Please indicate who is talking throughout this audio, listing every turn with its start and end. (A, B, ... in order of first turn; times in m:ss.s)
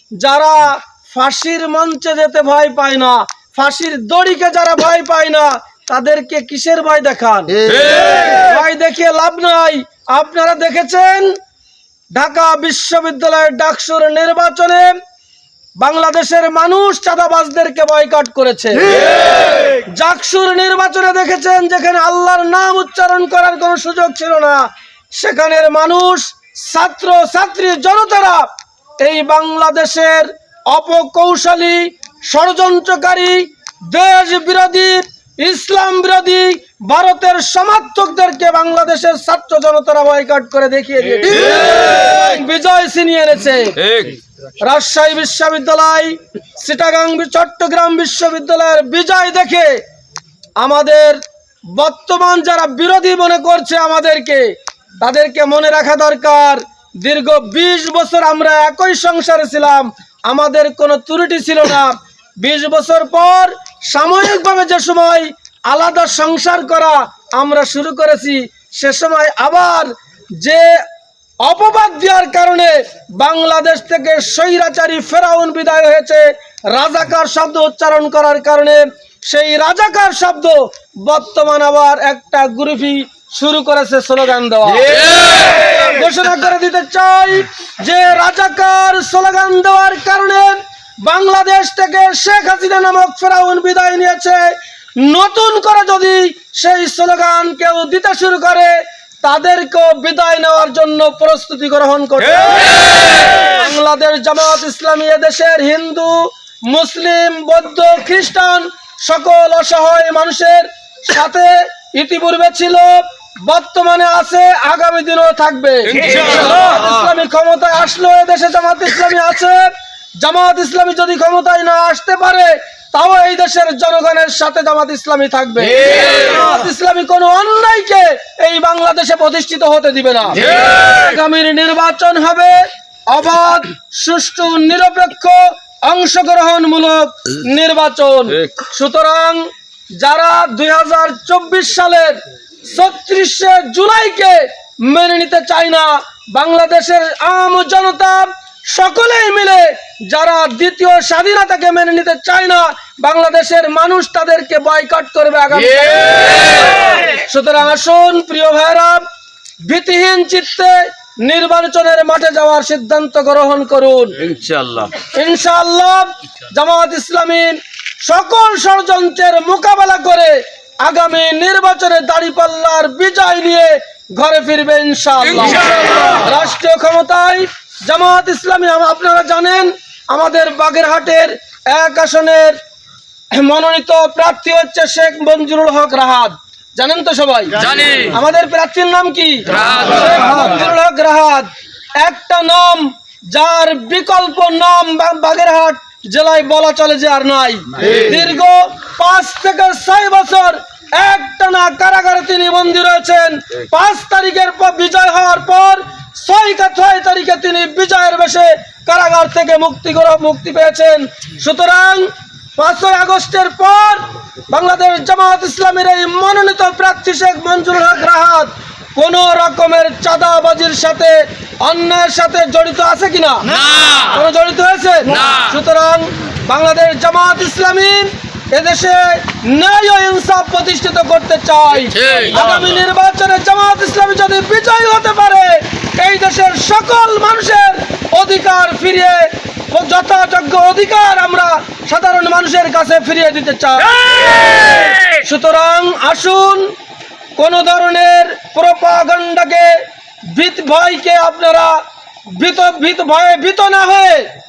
0:00.2-0:11.4 A
0:07.7-0:08.3 B
0:12.1-0:15.0 A
0:15.8-0:44.0 A
0:43.8-0:44.2 B
0:44.6-0:49.8 A
0:50.6-1:10.9 A
1:11.4-2:39.1 A
1:24.9-1:25.5 B
2:39.6-2:44.3 A
2:44.2-2:44.9 B
2:45.0-3:02.6 A
3:03.3-4:06.7 A
3:07.6-3:08.1 B
3:43.6-3:44.0 B
3:52.0-3:52.3 B
4:04.0-4:05.0 B
4:07.4-4:14.3 A